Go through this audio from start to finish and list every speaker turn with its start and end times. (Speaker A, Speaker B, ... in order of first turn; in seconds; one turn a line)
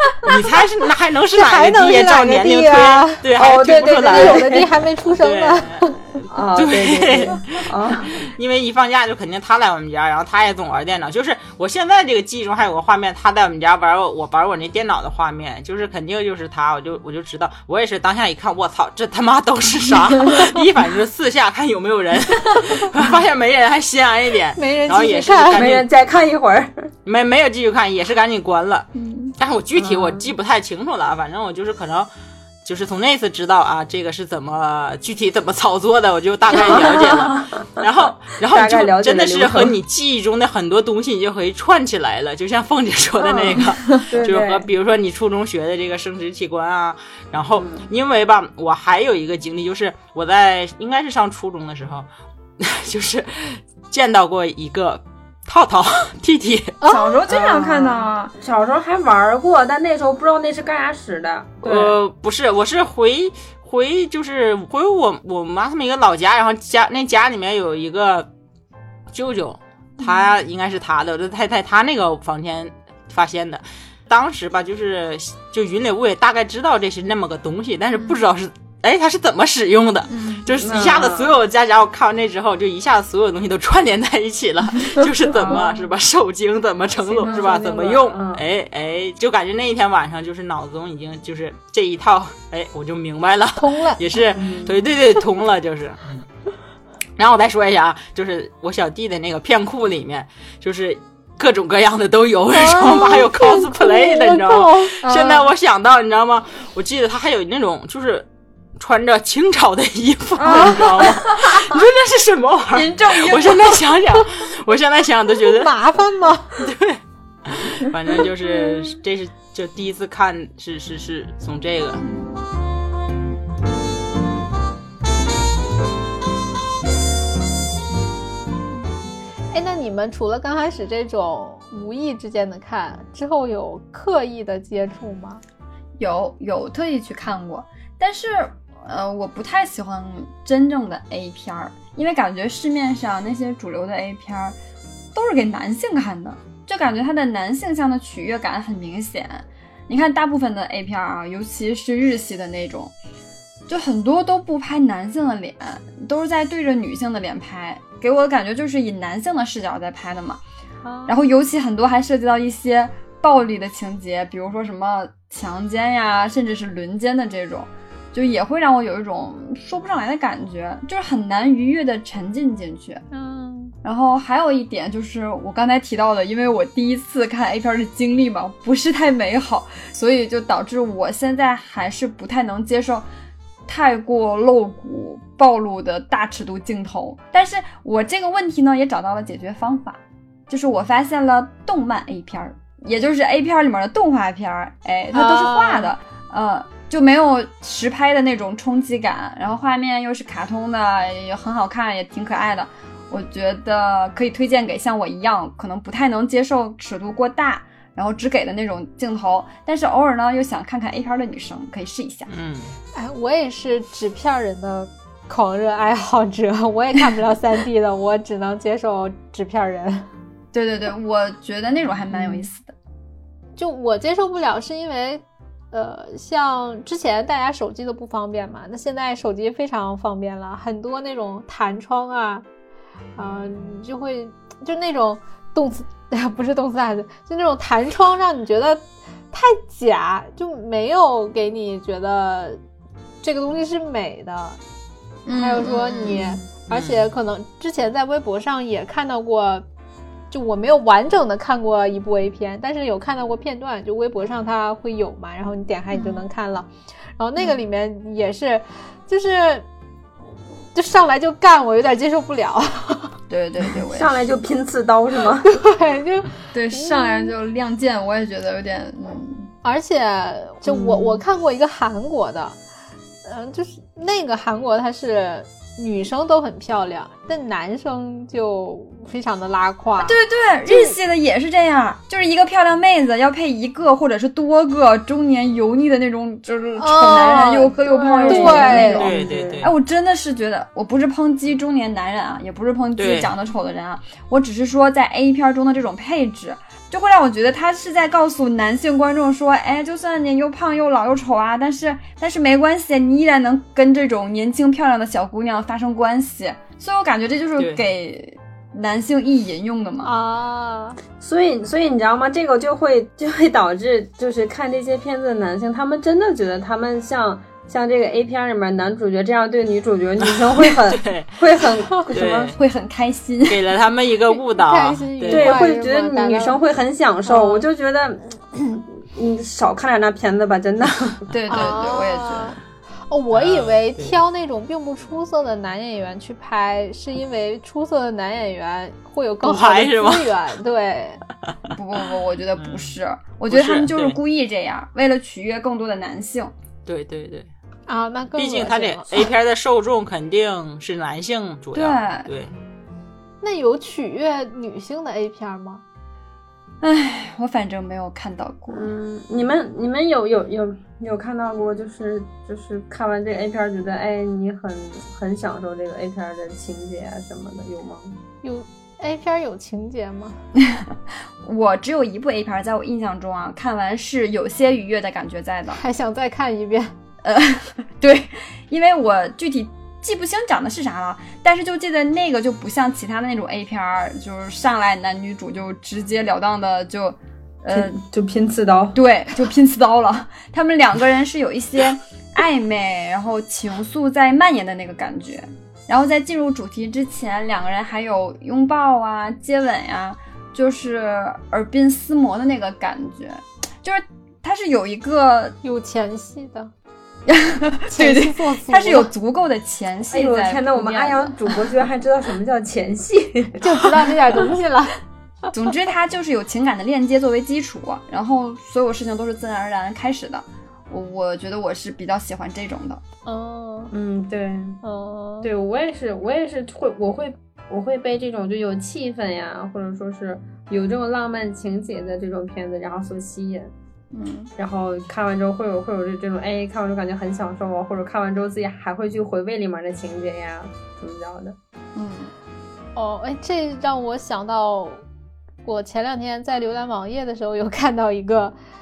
Speaker A: 0.2-5.9
Speaker B: 1.3-3.3
Speaker C: 3.4-4.7
Speaker B: 4.0-6.0
Speaker C: 6.3-8.3
Speaker A: 6.5-25.9
Speaker B: 24.6-25.7
Speaker C: 25.5-26.9
Speaker A: 27.1-32.1
Speaker D: 28.9-29.3
Speaker C: 29.8-30.3
Speaker A: 32.6-52.1
Speaker C: 36.5-37.6
Speaker C: 38.5-39.8
Speaker C: 43.2-44.7
Speaker C: 47.6-47.9
Speaker A: 52.6-56.8
Speaker B: 56.8-57.2
Speaker D: 56.9-58.3
Speaker C: 57.3-62.0
Speaker A: 61.6-68.3
Speaker A: 69.1-96.2
Speaker D: 80.1-80.5
Speaker C: 80.6-81.4
Speaker C: 85.3-85.7
Speaker C: 87.1-88.4
Speaker B: 93.6-94.0
Speaker C: 94.4-94.8
Speaker A: 97.2-108.3
Speaker B: 102.5-105.0
Speaker D: 105.0-105.5
Speaker A: 108.8-115.7
Speaker D: 110.4-111.8
Speaker B: 110.5-110.8
Speaker D: 112.7-113.8
Speaker B: 115.5-116.6
Speaker A: 116.6-122.0
Speaker D: 122.0-122.4
Speaker B: 129.5-135.4
Speaker D: 136.0-144.6
Speaker D: 145.2-152.9
Speaker D: 153.7-160.4
Speaker B: 160.8-161.2
Speaker D: 161.1-173.0
Speaker B: 173.1-173.8
Speaker D: 173.8-183.1
Speaker D: 183.7-212.3
Speaker B: 195.1-195.9
Speaker A: 212.3-212.7
Speaker B: 212.9-220.1
Speaker D: 220.5-222.7
Speaker B: 223.6-232.4
Speaker B: 233.2-242.6
Speaker B: 243.2-244.6
Speaker D: 245.3-246.4
Speaker B: 245.3-249.7
Speaker A: 246.7-247.0
Speaker B: 250.3-259.6
Speaker D: 255.9-256.2
Speaker B: 260.7-263.1
Speaker D: 263.3-264.2
Speaker C: 263.9-265.6
Speaker B: 265.4-267.3
Speaker D: 266.5-269.5
Speaker B: 269.6-272.6
Speaker C: 270.7-271.2
Speaker B: 273.2-280.9
Speaker D: 280.0-310.1
Speaker B: 286.8-289.1
Speaker C: 287.8-289.7
Speaker A: 288.9-289.8
Speaker A: 293.0-293.3
Speaker B: 310.0-311.0
Speaker C: 311.2-322.6
Speaker A: 320.3-322.6
Speaker D: 322.6-323.6
Speaker A: 323.5-325.6
Speaker B: 324.3-326.6
Speaker C: 325.3-331.2
Speaker B: 327.3-327.7
Speaker D: 331.3-332.6
Speaker B: 331.5-341.2
Speaker A: 333.3-334.2
Speaker A: 339.4-340.3
Speaker D: 341.7-346.5
Speaker A: 342.6-342.9
Speaker A: 343.5-344.2
Speaker A: 346.9-347.5
Speaker B: 347.9-349.3
Speaker A: 348.4-352.5
Speaker D: 351.8-352.3
Speaker B: 353.4-355.8
Speaker D: 356.8-358.9
Speaker C: 358.7-368.2
Speaker B: 368.4-370.4
Speaker D: 371.4-375.8
Speaker B: 375.7-376.9
Speaker D: 377.2-387.9
Speaker C: 387.7-389.0
Speaker D: 388.9-405.6
Speaker B: 405.6-406.7
Speaker D: 407.3-411.5
Speaker B: 407.9-409.1
Speaker C: 410.1-414.1
Speaker B: 413.6-415.0
Speaker D: 415.5-423.0
Speaker B: 423.3-423.9
Speaker C: 423.9-424.8
Speaker B: 424.8-425.5
Speaker C: 425.4-433.7
Speaker D: 434.1-434.5
Speaker C: 434.6-441.6
Speaker D: 441.9-442.3
Speaker B: 442.9-445.0
Speaker B: 445.6-448.6